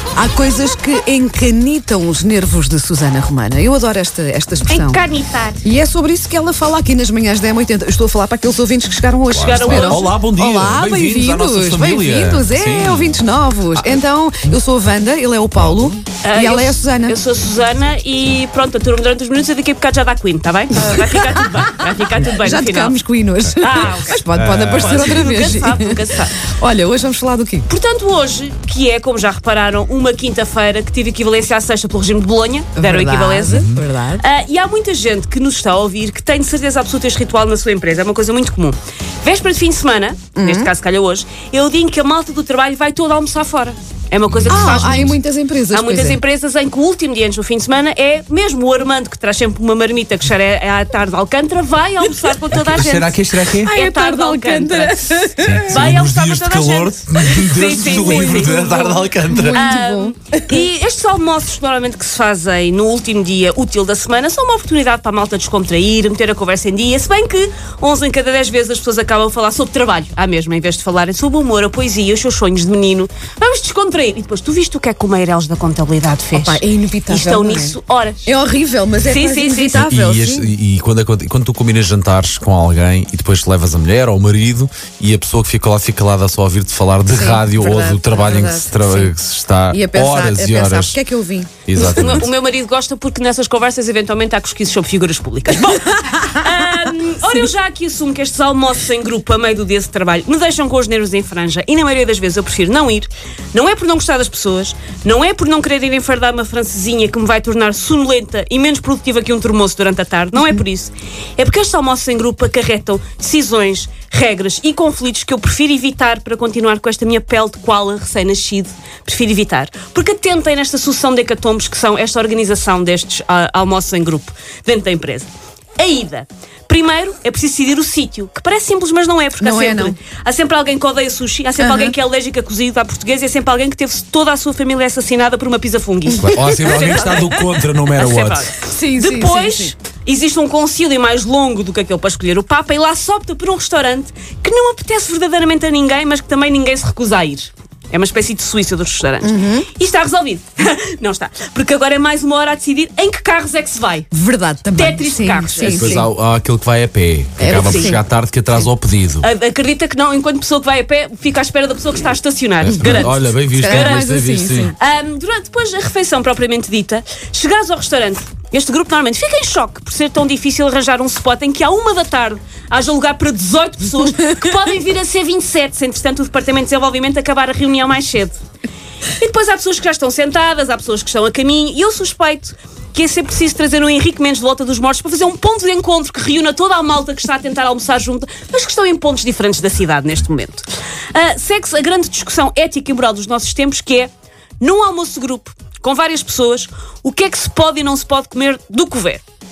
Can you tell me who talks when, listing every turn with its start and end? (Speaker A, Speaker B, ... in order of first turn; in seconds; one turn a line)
Speaker A: 0.2-5.0
Speaker B: 4.7-5.6
Speaker A: 5.6-17.2
Speaker C: 9.3-14.0
Speaker B: 9.4-10.2
Speaker B: 16.2-23.0
Speaker A: 20.8-21.3
Speaker A: 22.3-27.7
Speaker B: 23.6-26.4
Speaker C: 24.3-25.5
Speaker B: 27.7-58.7
Speaker A: 32.8-34.2
Speaker C: 33.5-33.8
Speaker A: 40.4-40.7
Speaker C: 44.3-45.1
Speaker A: 44.5-46.2
Speaker C: 52.5-53.7
Speaker A: 53.6-55.9
Speaker C: 55.4-59.7
Speaker A: 57.8-60.6
Speaker B: 59.5-78.3
Speaker A: 76.3-80.5
Speaker B: 79.0-79.9
Speaker C: 79.7-91.0
Speaker A: 87.1-89.1
Speaker A: 89.7-92.2
Speaker C: 91.7-92.3
Speaker B: 91.8-154.1
Speaker A: 129.4-130.0
Speaker A: 131.6-131.9
Speaker C: 136.2-138.5
Speaker A: 136.2-137.0
Speaker A: 138.6-139.7
Speaker A: 149.2-149.7
Speaker A: 154.1-156.1
Speaker B: 154.7-156.0
Speaker C: 155.6-159.3
Speaker A: 157.4-158.0
Speaker B: 157.6-158.0
Speaker B: 159.2-164.1
Speaker C: 162.6-164.7
Speaker A: 162.6-164.7
Speaker B: 164.8-178.4
Speaker B: 179.2-199.2